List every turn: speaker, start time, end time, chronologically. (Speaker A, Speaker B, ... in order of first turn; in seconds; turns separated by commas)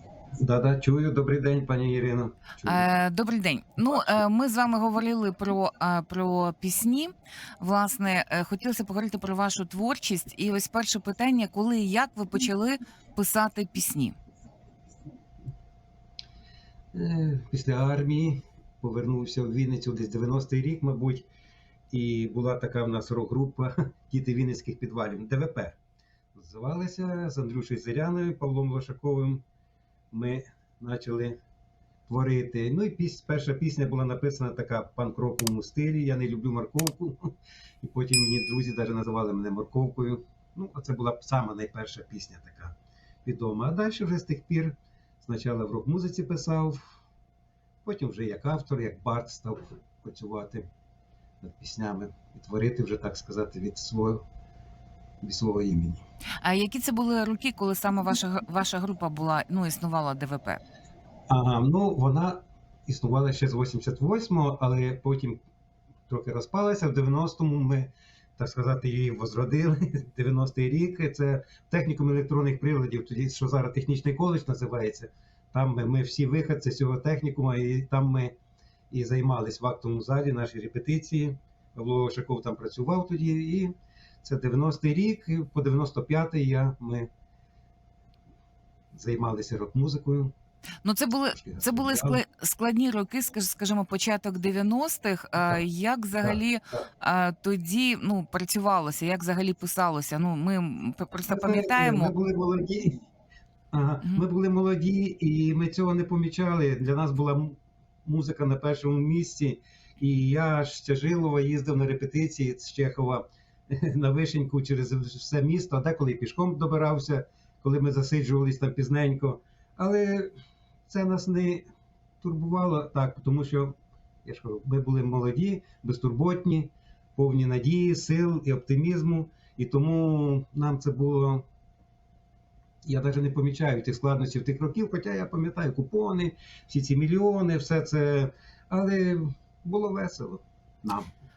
Speaker A: 0.4-2.9, Speaker B: 2.6-14.2, Speaker A: 3.9-4.2, Speaker A: 16.9-21.3, Speaker A: 21.9-25.8, Speaker A: 26.3-29.4, Speaker A: 30.1-31.4, Speaker A: 32.1-46.8, Speaker A: 47.8-50.7, Speaker A: 51.4-54.2, Speaker A: 55.2-56.0, Speaker B: 56.4-60.6, Speaker A: 61.3-65.4, Speaker A: 66.1-78.4, Speaker A: 78.9-87.1, Speaker A: 88.9-90.3, Speaker B: 90.8-102.1, Speaker A: 91.4-92.2, Speaker A: 101.3-103.0, Speaker A: 103.7-120.3, Speaker A: 120.9-121.7, Speaker A: 122.2-131.5, Speaker A: 132.8-141.1